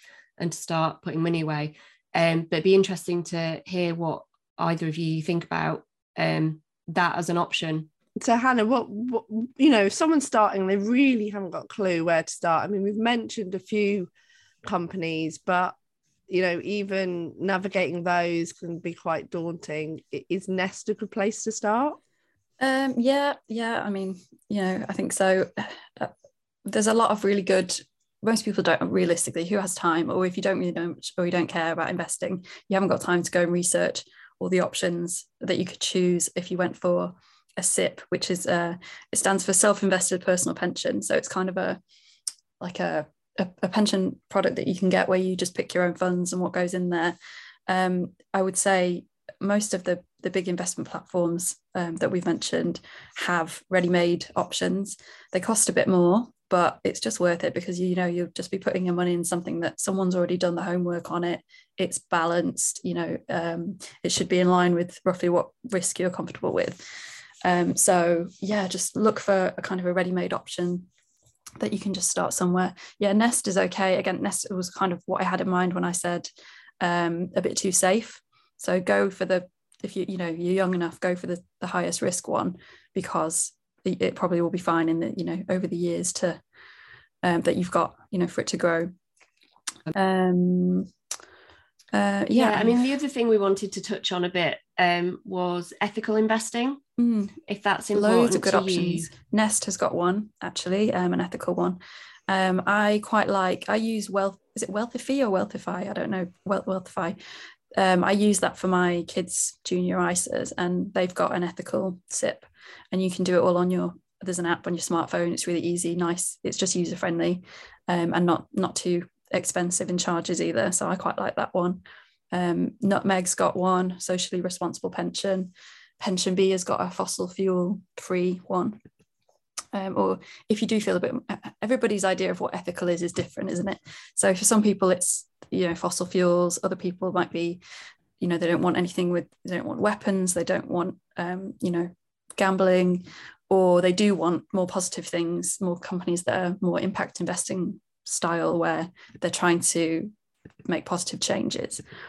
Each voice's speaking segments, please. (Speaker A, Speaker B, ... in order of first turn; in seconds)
Speaker A: 0.4-7.9, 92.3-96.8, 97.5-99.1
Speaker B: 8.2-14.1, 14.6-15.7, 16.3-22.0
Speaker C: 22.6-26.1, 26.6-41.8, 42.6-47.2, 47.7-66.8, 67.4-70.9, 71.6-86.4, 87.2-88.9, 89.9-90.9, 91.9-92.8, 97.0-97.4, 97.9-107.2, 107.7-128.8, 129.7-137.6, 138.2-150.1, 150.7-151.8